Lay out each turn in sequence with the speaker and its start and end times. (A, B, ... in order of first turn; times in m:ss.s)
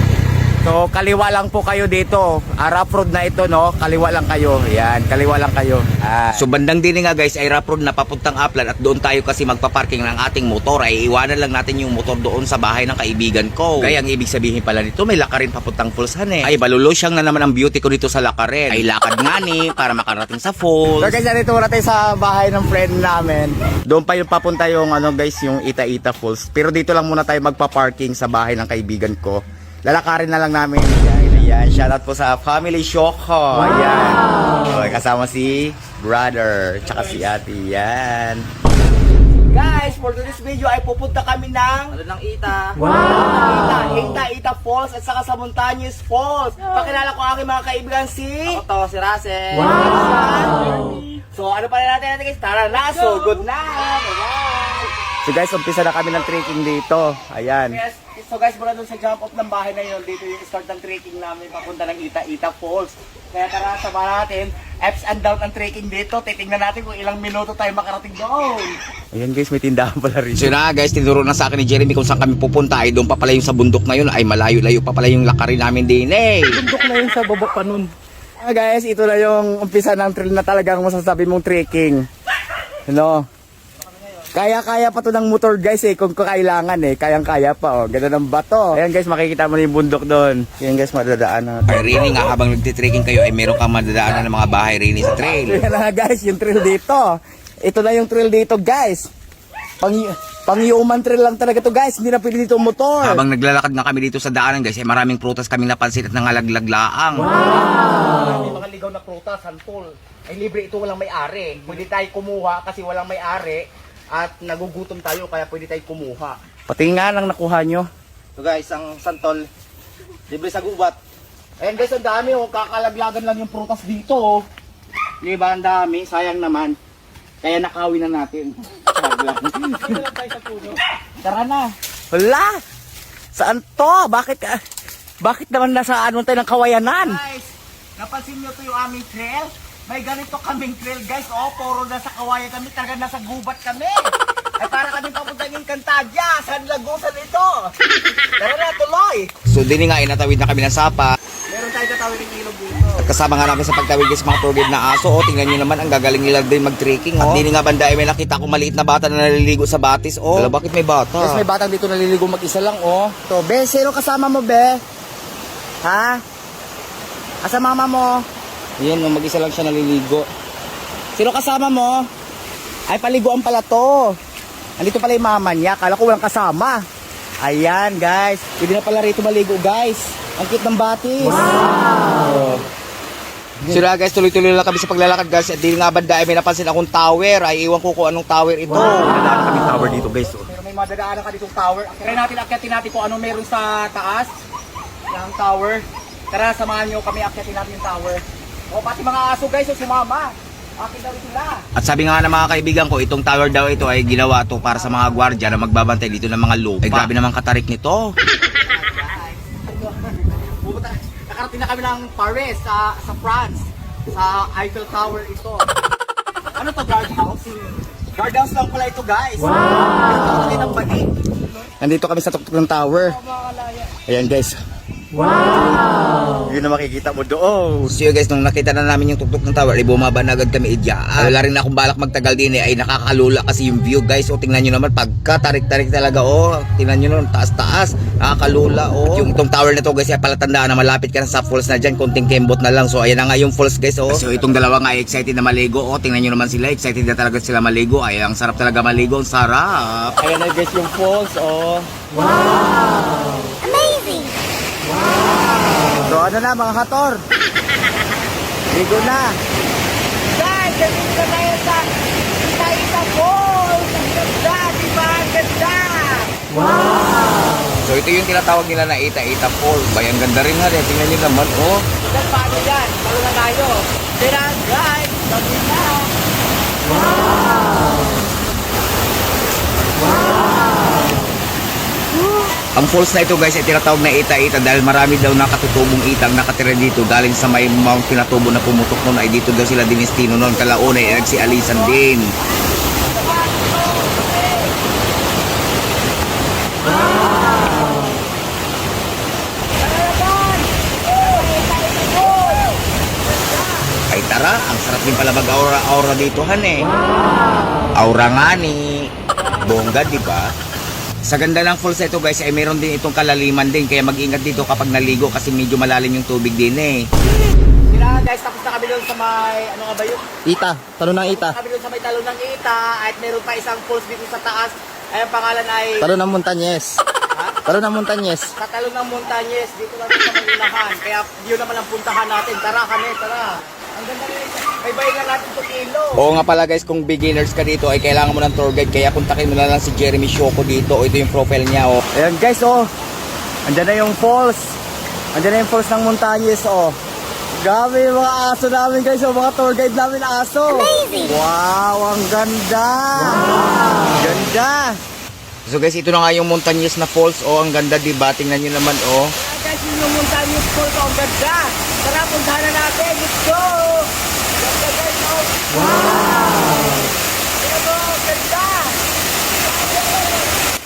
0:00.6-0:06.4 A
0:06.3-0:21.2 B
0:21.0-0:38.4 A
0:39.5-0:42.0 A
0:42.0-0:43.3 C
0:43.1-0:48.6 A
0:48.5-0:51.3 C
0:49.8-0:50.7 A
0:51.3-1:10.5 A
0:52.7-0:53.5 C
1:10.4-1:16.6 B
1:16.5-1:17.9 A
1:18.4-1:22.0 A
1:22.9-1:23.3 A
1:24.3-1:32.1 A
1:31.7-1:35.6 B
1:35.2-1:39.1 A
1:39.8-1:43.2 A
1:43.0-1:47.3 B
1:47.8-1:59.5 A
2:00.3-2:01.0 A
2:01.6-2:04.4 A
2:05.2-2:06.8 A
2:07.4-2:12.6 A
2:10.0-2:10.4 C
2:13.4-2:14.6 A
2:15.2-2:24.0 A
2:24.6-2:27.7 A
2:28.4-2:29.3 A
2:29.5-2:31.1 B
2:31.5-2:33.1 A
2:33.0-2:41.5 B
2:41.2-2:44.8 A
2:45.8-2:46.2 A
2:47.4-2:48.2 A
2:51.2-2:52.1 A
2:52.9-2:54.2 A
2:54.8-2:56.8 A
2:57.4-3:02.6 A
3:03.7-3:10.5 B
3:10.0-3:14.3 A
3:15.1-3:21.6 A
3:21.8-3:28.1 B
3:28.7-3:35.7 A
3:36.6-3:41.1 A
3:41.8-3:43.2 A
3:43.8-3:44.6 A
3:45.4-3:45.7 A
3:46.4-3:47.9 A
3:47.9-4:10.2 B
4:04.1-4:04.5 A
4:10.2-4:11.9 A
4:15.9-4:17.2 A
4:18.7-4:19.4 A
4:20.4-4:21.9 A
4:22.4-4:26.9 A
4:27.8-4:31.9 B
4:32.0-4:36.1 A
4:42.8-4:52.3 B
4:50.6-4:51.9 A
4:53.1-4:54.7 A
4:56.9-4:57.6 A
4:59.8-5:03.9 A
5:04.1-5:06.9 B
5:08.0-5:10.5 B
5:09.4-5:09.9 A
5:11.2-5:17.1 B
5:17.9-5:20.4 A
5:20.5-5:21.6 C
5:21.1-5:26.2 A
5:27.4-5:36.3 A
5:36.2-5:42.0 B
5:42.2-5:42.9 A
5:43.7-5:44.8 A
5:45.4-5:47.0 A
5:47.6-5:55.0 A
5:55.7-5:59.3 B
5:59.4-6:07.1 A
6:07.6-6:09.0 A
6:09.7-6:10.5 A